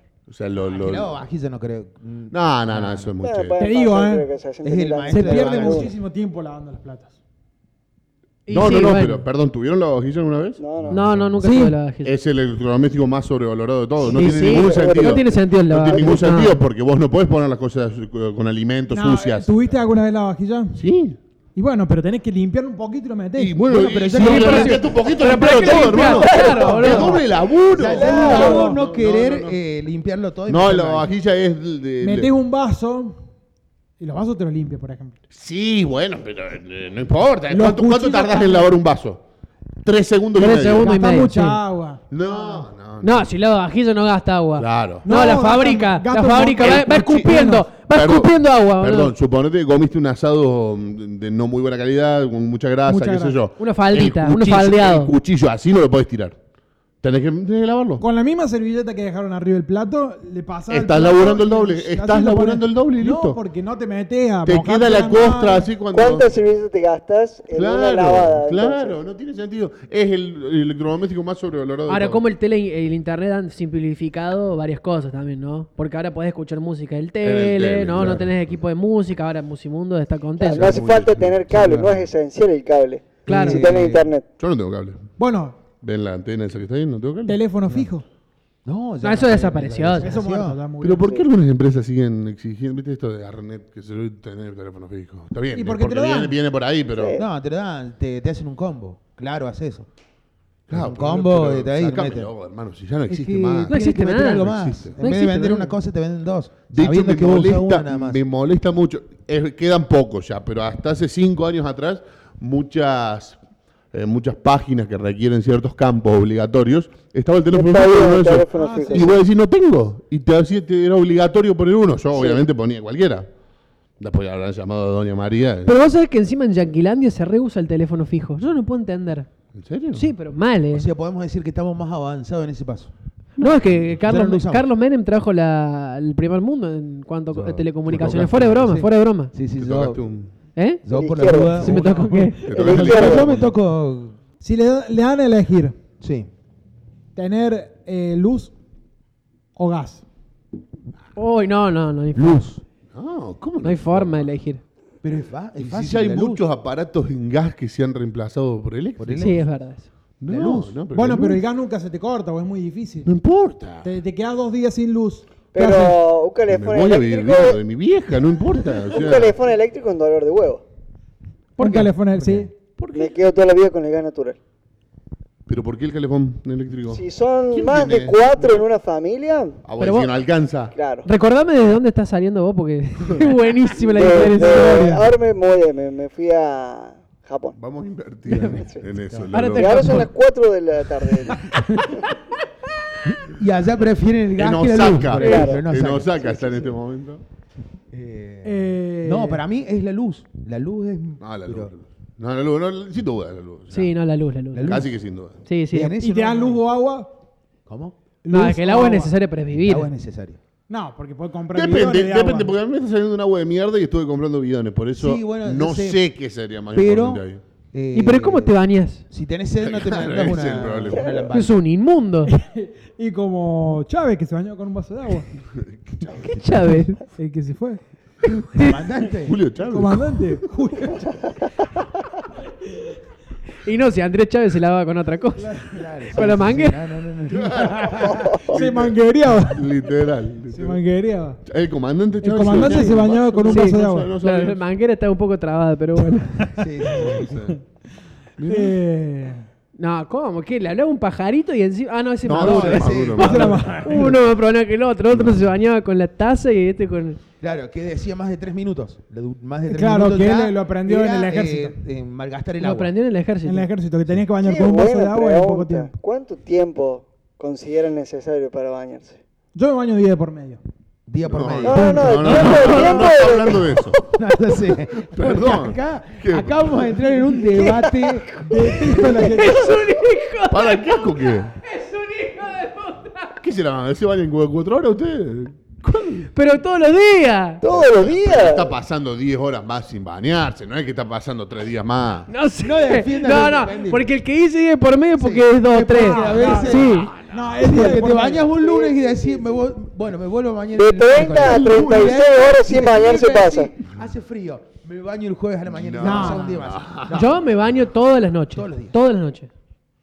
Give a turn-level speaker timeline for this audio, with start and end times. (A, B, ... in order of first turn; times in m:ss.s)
0:00.3-0:01.1 A
0:00.7-0:03.1 B
0:02.3-0:03.6 A
0:03.2-0:05.9 C
0:03.6-0:04.3 D
0:04.6-0:05.9 B
0:05.1-0:07.1 D
0:08.4-0:09.2 E
0:08.5-0:11.4 A
0:10.6-0:11.0 C
0:10.9-0:12.1 E
0:11.4-0:11.7 D
0:12.0-0:19.5 A
0:14.0-0:16.6 E
0:14.2-0:15.2 C
0:18.9-0:20.8 D
0:20.7-0:21.2 A
0:21.6-0:23.6 D
0:23.4-0:29.6 A
0:23.7-0:24.9 B
0:24.2-0:27.2 E
0:25.4-0:27.2 D
0:26.6-0:27.1 B
0:27.7-0:31.1 B
0:27.9-0:28.8 C
0:28.0-0:28.8 D
0:30.5-0:32.3 A
0:32.0-0:33.2 D
0:34.0-0:35.2 D
0:35.3-0:39.2 A
0:37.5-0:38.7 D
0:39.8-0:41.0 A
0:40.4-0:41.6 E
0:40.8-0:42.6 D
0:42.1-0:43.3 A
0:43.0-0:49.1 E
0:44.6-0:45.1 A
0:45.0-0:47.7 D
0:46.6-0:47.4 A
0:47.9-0:56.4 A
0:52.9-0:53.4 D
0:53.6-0:55.1 E
0:57.0-0:58.0 A
0:58.0-1:05.7 D
1:00.7-1:03.4 A
1:04.4-1:06.3 A
1:05.9-1:09.0 C
1:07.5-1:12.2 A
1:11.9-1:20.8 E
1:17.2-1:18.5 A
1:20.4-1:24.2 C
1:20.5-1:21.6 A
1:21.5-1:22.0 B
1:23.2-1:23.7 E
1:23.2-1:24.1 B
1:24.4-1:25.0 A
1:25.2-1:25.6 D
1:25.8-1:27.4 A
1:27.3-1:28.0 D
1:28.6-1:30.6 B
1:29.0-1:30.2 E
1:30.0-1:31.2 D
1:30.8-1:37.2 A
1:35.5-1:36.4 D
1:37.0-1:37.2 C
1:37.2-1:39.9 B
1:40.7-1:45.0 A
1:40.7-1:42.3 B
1:43.1-1:48.2 B
1:43.7-1:45.8 E
1:46.7-1:53.4 A
1:53.9-2:03.3 A
1:57.5-1:59.2 C
1:58.5-1:59.1 D
2:02.1-2:02.4 C
2:04.0-2:05.7 A
2:05.6-2:09.3 E
2:09.5-2:10.1 A
2:09.9-2:10.9 E
2:10.7-2:12.9 B
2:13.4-2:13.9 A
2:13.4-2:19.3 E
2:14.0-2:14.7 B
2:17.4-2:18.8 A
2:18.6-2:20.0 B
2:19.6-2:20.3 A
2:20.6-2:20.8 E
2:20.8-2:24.2 B
2:20.9-2:21.8 C
2:21.5-2:22.4 E
2:22.1-2:22.6 D
2:22.4-2:23.5 A
2:22.5-2:23.3 C
2:24.4-2:25.8 D
2:26.0-2:26.3 B
2:27.2-2:28.5 D
2:29.6-2:30.0 D
2:31.1-2:32.6 E
2:32.2-2:32.6 B
2:32.9-2:34.3 A
2:33.6-2:34.6 E
2:35.0-2:36.4 B
2:35.6-2:39.3 A
2:39.0-2:39.4 B
2:39.2-2:39.9 E
2:40.2-2:41.4 A
2:40.3-2:40.8 B
2:40.9-2:43.1 D
2:43.0-2:43.9 A
2:43.8-2:46.0 D
2:45.5-2:47.6 C
2:46.5-2:49.4 A
2:48.8-2:50.6 C
2:51.6-2:51.9 E
2:51.6-2:52.5 D
2:51.8-2:52.5 B
2:52.8-2:53.2 A
2:52.9-2:54.4 C
2:55.5-2:58.5 A
2:56.9-2:59.6 C
2:59.6-3:00.7 A
2:59.8-3:00.1 E
3:00.7-3:01.1 C
3:01.0-3:04.9 E
3:03.9-3:07.6 C
3:04.1-3:05.1 D
3:07.6-3:10.1 A
3:08.5-3:08.8 C
3:09.3-3:10.1 E
3:09.5-3:11.6 C
3:13.1-3:16.8 B
3:14.4-3:17.2 A
3:15.1-3:15.6 C
3:17.9-3:21.7 B
3:18.4-3:19.4 D
3:21.2-3:23.9 A
3:23.7-3:24.8 E
3:24.5-3:24.9 B
3:24.6-3:25.4 A
3:25.4-3:26.0 E
3:25.7-3:26.6 B
3:26.0-3:27.1 D
3:27.6-3:28.0 B
3:28.2-3:29.1 D
3:28.3-3:29.9 E
3:29.5-3:30.4 B
3:30.7-3:32.5 D
3:31.5-3:37.4 A
3:35.0-3:36.0 B
3:36.7-3:38.5 B
3:37.9-3:39.0 E
3:39.1-3:41.6 B
3:39.6-3:41.1 A
3:41.0-3:41.2 C
3:41.3-3:42.3 E
3:42.3-3:45.3 D
3:45.5-3:46.5 A
3:46.2-3:47.0 E
3:47.0-3:47.8 D
3:48.5-3:48.8 E
3:48.5-3:49.4 B
3:49.2-3:50.4 A
3:49.7-3:51.3 D
3:53.6-3:56.8 E
3:55.4-3:55.8 D
3:55.7-3:58.4 B
3:57.3-4:00.8 A
3:58.1-3:58.6 C
3:58.4-3:59.7 D
4:00.5-4:01.4 D
4:01.4-4:04.6 A
4:02.2-4:04.1 D
4:02.6-4:02.9 E
4:03.4-4:06.6 E
4:06.4-4:07.3 D
4:06.6-4:07.4 B
4:07.1-4:07.6 A
4:08.4-4:08.8 A
4:08.4-4:09.4 D
4:09.8-4:17.2 E
4:12.2-4:13.7 A
4:12.3-4:13.6 B
4:13.2-4:14.2 D
4:15.1-4:15.4 A
4:17.4-4:22.9 B
4:19.7-4:21.8 D
4:22.6-4:23.7 E
4:23.4-4:25.9 D
4:24.4-4:29.2 C
4:29.5-4:30.6 D
4:31.1-4:33.0 B
4:31.3-4:34.0 A
4:31.6-4:33.8 C
4:31.7-4:32.5 D
4:32.5-4:32.9 E
4:34.0-4:38.9 B
4:35.0-4:37.0 A
4:38.4-4:39.8 D
4:38.6-4:43.4 E
4:40.5-4:41.5 A
4:43.4-4:46.3 A
4:46.2-4:47.6 E
4:47.6-4:48.7 C
4:47.6-4:52.3 A
4:52.3-4:57.1 E
4:52.6-4:54.1 B
4:55.2-5:07.4 B
4:55.9-4:58.5 D
4:56.8-4:57.5 A
4:58.6-4:59.3 C
5:00.8-5:03.7 C
5:01.2-5:02.2 A
5:05.7-5:07.4 A
5:06.0-5:06.6 D
5:07.1-5:09.5 E
5:08.5-5:08.9 B